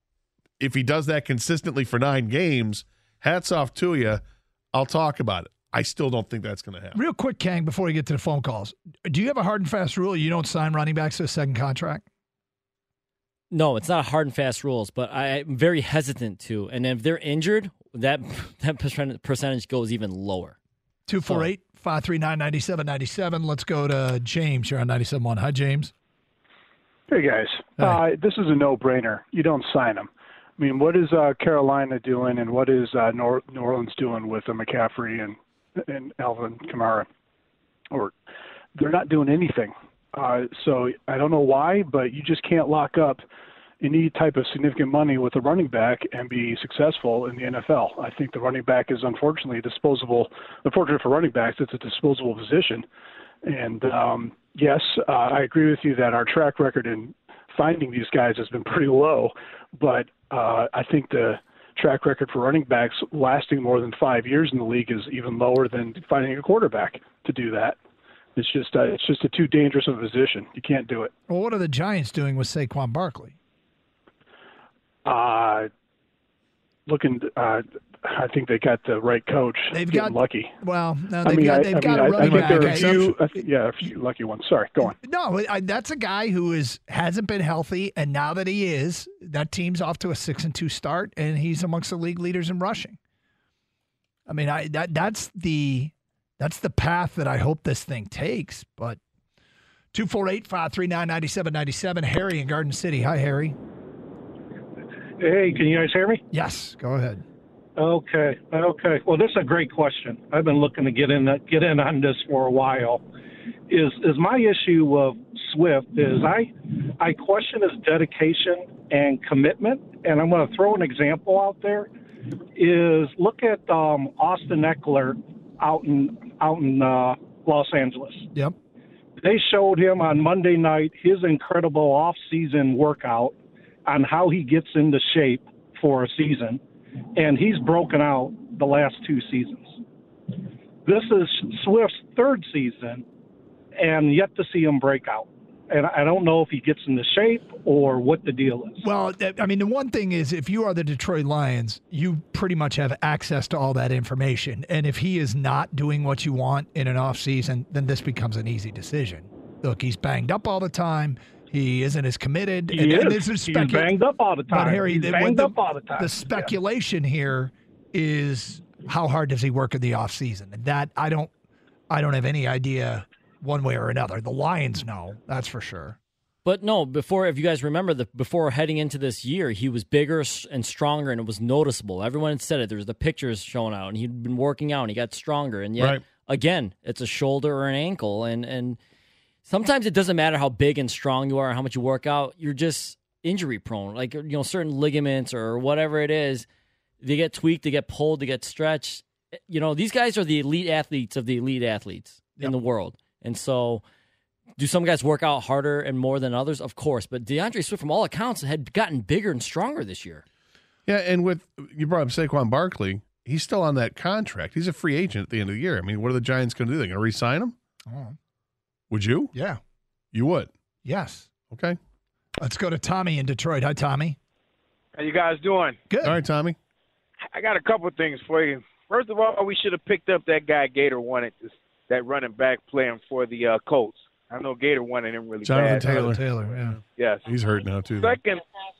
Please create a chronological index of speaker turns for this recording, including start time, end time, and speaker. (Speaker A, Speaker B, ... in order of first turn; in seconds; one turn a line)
Speaker A: 0.6-4.2
Speaker A: 4.7-7.0
Speaker B: 6.9-12.0
Speaker C: 13.5-20.6
Speaker B: 21.1-25.9
Speaker D: 27.1-35.3
Speaker D: 35.9-37.1
Speaker D: 38.8-43.2
Speaker D: 43.8-52.8
Speaker D: 53.5-67.8
Speaker D: 68.3-71.1
Speaker B: 71.3-73.3
Speaker D: 75.0-75.7
Speaker D: 76.9-80.5
Speaker B: 79.7-83.4
Speaker D: 81.2-84.9
Speaker A: 82.2-83.1
Speaker B: 84.8-93.0
Speaker B: 94.3-99.0
Speaker B: 99.9-103.6
Speaker E: 105.2-106.2
Speaker B: 106.3-107.2
Speaker E: 107.8-113.0
Speaker E: 113.7-121.9
Speaker E: 122.5-128.3
Speaker E: 129.2-136.6
Speaker E: 137.2-139.8
Speaker E: 140.4-143.0
Speaker E: 143.8-148.8
Speaker B: 148.8-163.9
Speaker E: 162.7-166.5
Speaker B: 164.5-171.3
Speaker B: 171.9-176.0
Speaker C: 176.4-188.8
Speaker C: 189.4-196.4
Speaker C: 197.0-203.8
Speaker C: 204.6-210.2
Speaker A: 210.9-217.6
Speaker B: 217.9-218.1
Speaker A: 218.9-219.3
Speaker B: 219.3-219.6
Speaker A: 220.1-220.5
Speaker B: 220.8-221.3
Speaker A: 221.5-221.8
Speaker B: 222.4-224.2
Speaker F: 224.9-225.8
Speaker B: 225.9-226.2
Speaker A: 226.0-226.6
Speaker F: 227.2-236.1
Speaker A: 235.4-238.2
Speaker B: 235.8-236.8
Speaker F: 236.9-237.2
Speaker F: 238.0-238.4